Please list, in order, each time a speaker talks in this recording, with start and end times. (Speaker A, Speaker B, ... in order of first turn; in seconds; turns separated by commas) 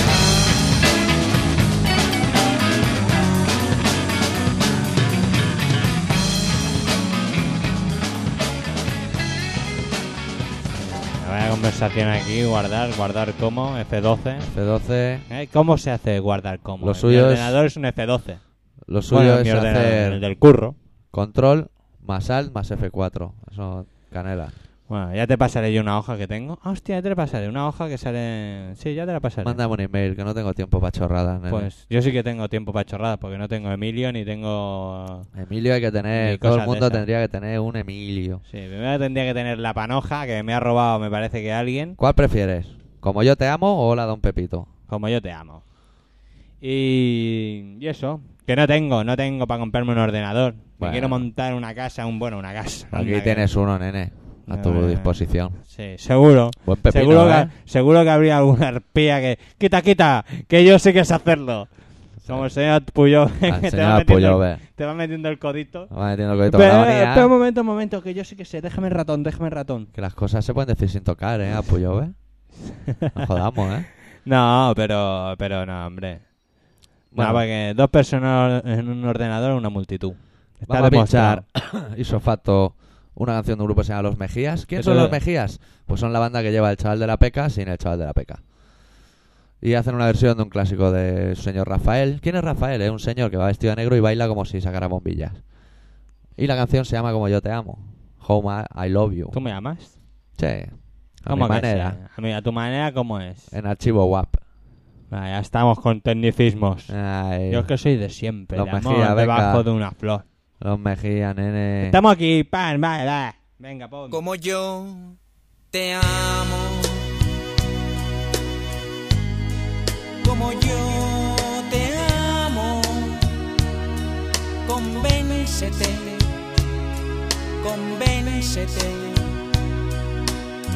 Speaker A: 10.8-14.5, Speaker B: 14.5-15.3, Speaker A: 15.3-18.5, Speaker B: 16.8-17.6, Speaker B: 18.9-20.2, Speaker A: 19.1-20.8, Speaker B: 21.1-24.5, Speaker A: 24.9-29.6, Speaker B: 29.4-31.7, Speaker A: 31.5-35.3, Speaker B: 35.4-38.4, Speaker A: 36.1-37.1, Speaker A: 38.5-42.0, Speaker B: 42.0-44.7, Speaker A: 44.9-45.6, Speaker A: 46.6-53.5, Speaker B: 50.8-51.2, Speaker B: 52.9-55.6, Speaker A: 54.5-65.9, Speaker B: 56.6-57.5, Speaker B: 62.2-62.5, Speaker B: 63.4-64.6, Speaker B: 65.9-67.3, Speaker A: 66.5-69.9, Speaker B: 69.9-72.2, Speaker A: 72.9-73.1, Speaker B: 73.1-73.9, Speaker A: 74.2-76.3, Speaker B: 77.1-77.4, Speaker A: 77.1-81.4, Speaker B: 80.7-88.4, Speaker A: 84.8-85.2, Speaker B: 89.6-95.4, Speaker B: 96.4-99.4, Speaker A: 99.3-100.0, Speaker B: 100.3-102.0, Speaker A: 101.3-103.5, Speaker B: 103.5-104.4, Speaker A: 105.1-106.9, Speaker B: 106.9-107.7, Speaker A: 107.5-110.2, Speaker B: 108.5-109.6, Speaker B: 110.6-112.0, Speaker A: 111.8-114.2, Speaker C: 114.1-115.2, Speaker C: 115.7-117.1, Speaker C: 120.2-123.4, Speaker C: 124.6-126.3, Speaker C: 127.6-129.3